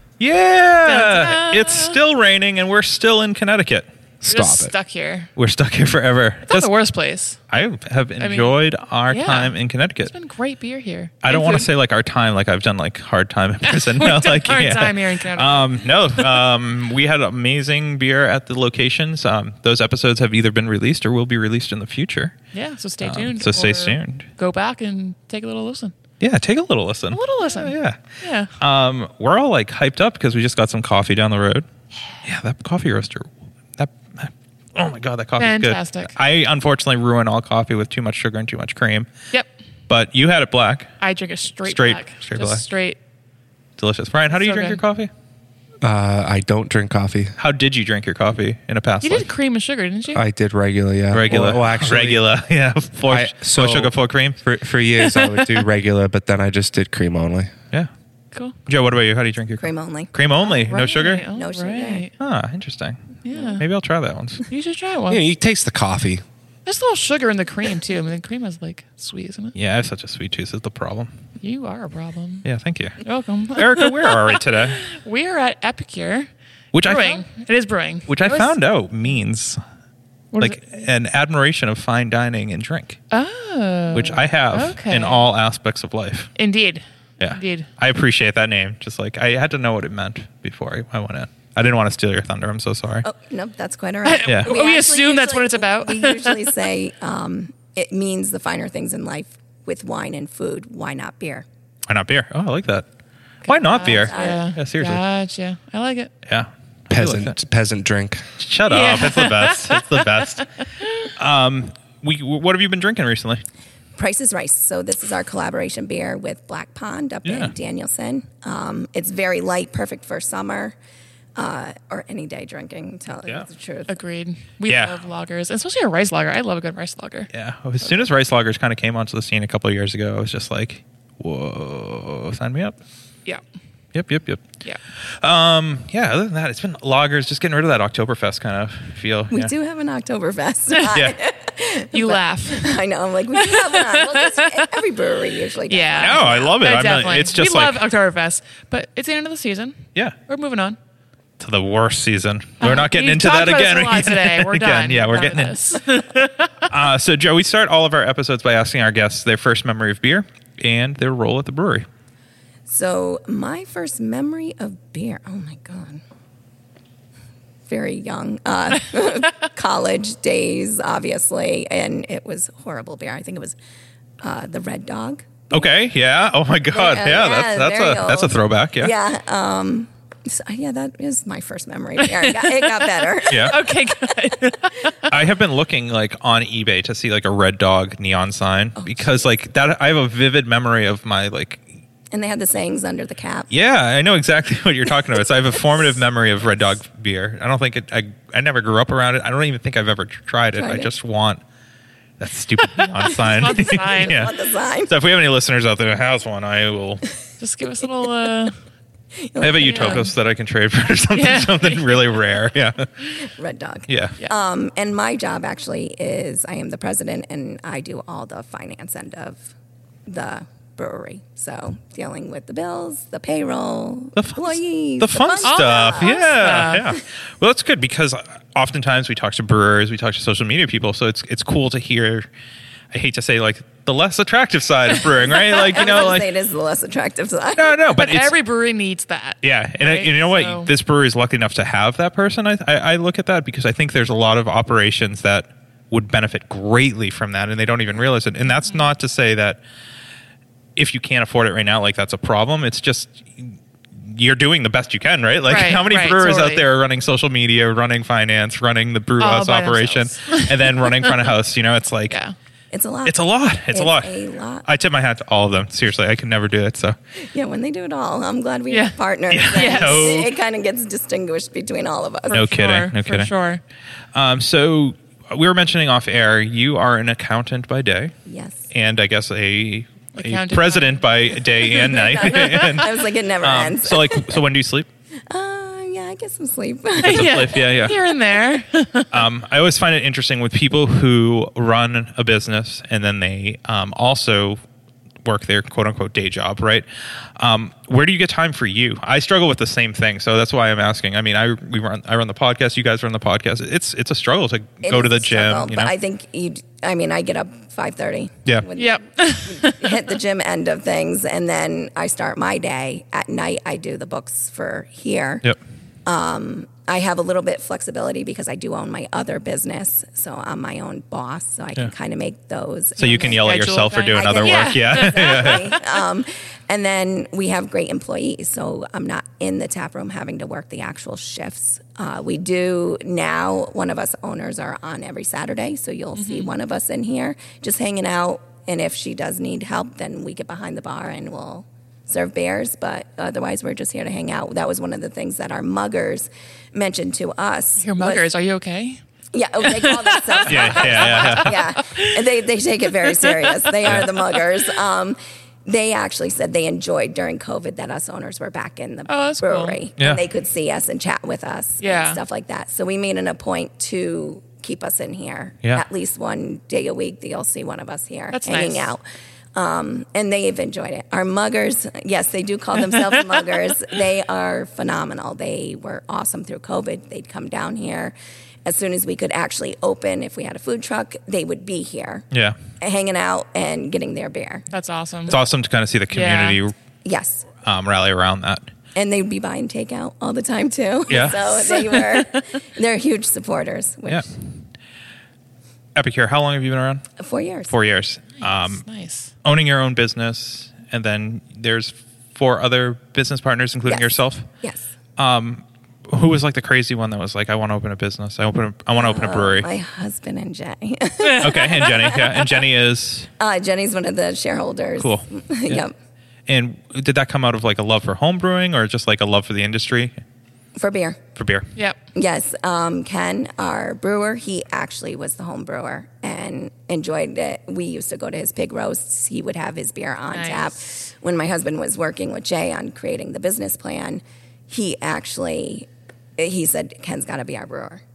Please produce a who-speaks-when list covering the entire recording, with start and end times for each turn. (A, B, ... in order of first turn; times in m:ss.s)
0:00.2-0:03.9 A
0:00.8-0:02.0 B
0:04.2-0:04.7 C
0:04.2-0:05.3 B
0:05.4-0:06.7 A
0:06.5-0:07.4 B
0:07.5-0:10.1 A
0:08.2-0:08.5 B
0:09.1-0:09.5 B
0:10.1-0:11.7 B
0:11.2-0:22.5 A
0:13.6-0:16.4 B
0:22.5-0:25.9 B
0:23.0-0:24.2 A
0:26.2-0:28.0 A
0:27.1-0:28.5 B
0:28.6-0:31.7 A
0:32.2-0:39.1 A
0:35.4-0:36.1 B
0:39.9-0:40.9 A
0:41.0-0:43.0 B
0:41.6-0:42.6 A
0:43.8-0:45.1 A
0:44.3-0:44.8 B
0:45.8-0:47.4 C
0:47.4-0:49.2 A
0:49.0-0:50.2 B
0:50.1-0:52.3 C
0:51.1-0:54.4 A
0:53.1-0:57.5 C
0:55.0-0:55.6 B
0:58.3-0:58.6 B
0:58.6-1:01.2 A
0:59.6-1:00.6 D
1:00.6-1:02.1 B
1:01.3-1:02.1 D
1:02.2-1:04.4 A
1:03.2-1:03.6 B
1:03.3-1:03.6 D
1:04.5-1:05.2 B
1:05.1-1:06.2 C
1:06.6-1:09.5 B
1:09.5-1:11.1 A
1:11.4-1:12.5 B
1:12.4-1:14.8 A
1:13.0-1:16.3 B
1:16.7-1:17.2 A
1:16.8-1:18.6 B
1:18.1-1:19.6 A
1:20.3-1:20.6 B
1:20.4-1:23.0 A
1:23.1-1:25.3 B
1:23.9-1:26.3 A
1:26.4-1:27.7 B
1:27.2-1:33.1 A
1:33.0-1:41.4 D
1:34.0-1:36.5 B
1:34.2-1:34.5 A
1:41.9-1:42.9 A
1:43.4-1:46.1 B
1:43.4-1:45.0 A
1:43.8-1:44.5 D
1:46.3-1:47.4 A
1:46.9-1:48.3 C
1:48.4-1:53.4 A
1:48.7-1:50.0 B
1:50.8-1:51.1 B
1:54.0-2:00.8 D
1:57.2-1:57.5 A
2:01.4-2:04.0 D
2:03.9-2:07.3 B
2:04.7-2:05.0 A
2:07.3-2:12.8 A
2:13.9-2:19.5 A
2:19.3-2:26.6 D
2:20.9-2:21.2 A
2:21.9-2:22.8 B
2:23.4-2:24.6 B
2:25.7-2:30.8 B
2:26.0-2:27.8 A
2:31.4-2:36.0 A
2:32.6-2:36.6 B
2:36.6-2:41.8 A
2:42.7-2:46.0 D
2:47.7-2:53.6 D
2:54.2-2:55.7 D
2:55.5-2:58.9 A
2:56.7-3:04.1 D
3:02.1-3:05.1 B
3:03.3-3:03.6 A
3:05.1-3:11.6 A
3:08.8-3:09.3 D
3:12.1-3:13.5 D
3:13.5-3:21.4 A
3:20.5-3:20.9 D
3:22.2-3:24.3 A
3:22.7-3:24.2 B
3:23.5-3:24.9 D
3:24.9-3:27.0 A
3:27.4-3:28.6 B
3:29.2-3:30.1 D
3:29.4-3:33.1 A
3:29.6-3:30.0 B
3:31.1-3:32.0 B
3:33.2-3:39.5 D
3:33.9-3:34.2 A
3:40.0-3:46.6 D
3:44.2-3:52.3 A
3:45.4-3:46.9 B
3:52.9-3:56.3 A
3:55.3-3:57.8 D
3:57.6-3:58.3 A
3:57.9-4:00.7 B
3:59.4-4:09.6 A
4:10.8-4:22.2 A
4:15.5-4:16.6 B
4:19.2-4:21.3 B
4:22.1-4:22.4 B
4:22.7-4:23.2 D
4:23.0-4:27.0 A
4:23.7-4:24.6 D
4:27.3-4:32.5 D
4:28.7-4:29.0 B
4:29.3-4:30.3 A
4:29.5-4:30.3 B
4:32.3-4:33.6 B
4:32.3-4:33.3 A
4:34.1-4:38.2 A
4:38.2-4:38.7 D
4:38.7-4:44.9 A
4:40.1-4:42.8 B
4:41.8-4:44.4 D
4:45.3-4:47.6 D
4:47.0-4:49.2 B
4:47.0-4:48.0 A
4:49.1-4:54.6 A
4:55.2-5:05.9 A
5:04.8-5:15.4 D
5:08.8-5:10.0 B
5:16.0-5:48.2 D
5:23.0-5:25.6 A
5:23.4-5:25.8 B
5:36.2-5:36.5 B
5:47.8-5:49.0 B
5:49.3-6:09.0 D
5:49.6-5:52.2 B
5:50.5-5:51.6 A
5:53.1-5:54.4 B
5:59.1-5:59.8 B
6:01.8-6:02.2 B
6:08.3-6:08.9 B
6:09.5-6:18.1 D
6:18.6-6:22.2 D
6:22.3-6:22.6 A
6:22.8-6:24.7 D
6:24.7-6:25.4 B
6:25.3-6:26.7 A
6:26.1-6:26.6 B
6:27.0-6:27.5 D
6:27.6-6:28.7 A
6:28.9-6:34.2 D
6:31.1-6:31.8 A
6:31.8-6:32.3 B
6:35.9-6:37.1 A
6:37.2-6:37.7 D
6:37.7-6:38.8 A
6:38.4-6:39.3 B
6:39.4-6:44.5 A
6:43.8-6:44.9 D
6:45.2-6:49.7 A
6:49.0-6:52.4 D
6:51.2-6:52.2 B
6:51.4-6:53.3 A
6:53.4-6:55.9 D
6:55.0-6:55.8 A
6:56.5-7:00.2 A
7:00.8-7:01.2 D
7:01.3-7:01.7 A
7:02.1-7:18.0 D
7:10.3-7:10.7 B